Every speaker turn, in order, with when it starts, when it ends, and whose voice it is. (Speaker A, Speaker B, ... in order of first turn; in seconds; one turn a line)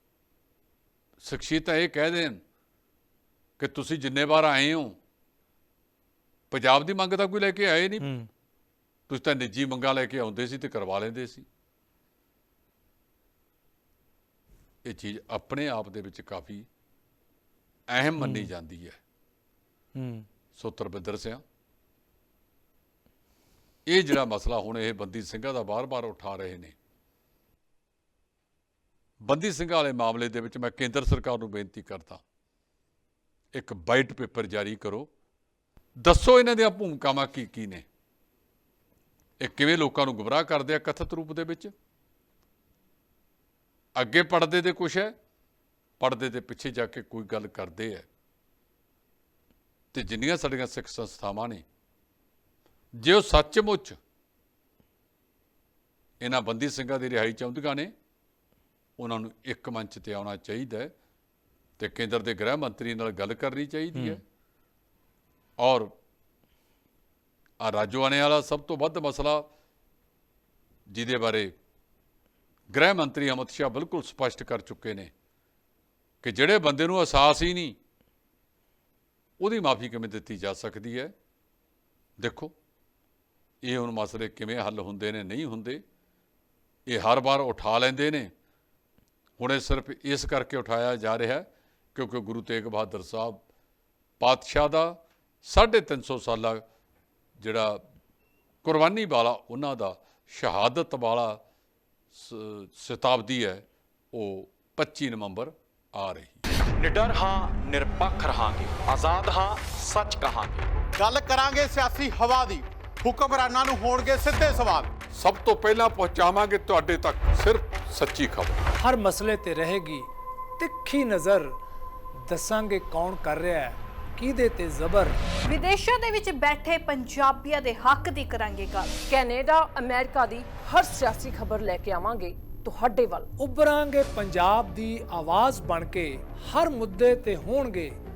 Speaker A: 1.2-2.4
Speaker A: 3.6-5.0
Speaker A: 6.5-8.1
Speaker B: 8.0-8.3
Speaker A: 9.1-11.5
Speaker A: 14.8-16.7
Speaker A: 17.9-19.0
Speaker B: 18.2-18.5
Speaker B: 20.0-20.2
Speaker A: 20.6-21.4
Speaker A: 23.9-26.7
Speaker A: 29.2-32.2
Speaker A: 33.5-35.1
Speaker A: 36.0-37.9
Speaker A: 39.4-41.7
Speaker A: 44.0-45.1
Speaker A: 46.0-48.1
Speaker A: 49.9-51.6
Speaker A: 53.0-54.0
Speaker A: 56.2-57.9
Speaker A: 59.0-60.9
Speaker A: 61.8-64.2
Speaker A: 65.6-65.9
Speaker A: 67.6-69.5
Speaker A: 70.9-71.5
Speaker A: 72.7-75.1
Speaker A: 76.2-77.8
Speaker A: 79.4-81.1
Speaker A: 82.2-82.5
Speaker A: 83.6-85.8
Speaker A: 86.9-88.3
Speaker A: 89.4-93.4
Speaker A: 94.2-96.6
Speaker A: 97.4-97.8
Speaker A: 98.6-101.4
Speaker A: 102.1-106.4
Speaker B: 106.8-110.8
Speaker C: 111.0-114.9
Speaker A: 115.1-118.6
Speaker D: 118.8-120.1
Speaker D: 120.6-121.5
Speaker D: 122.3-125.2
Speaker E: 125.5-129.0
Speaker F: 129.0-133.3
Speaker D: 133.4-138.0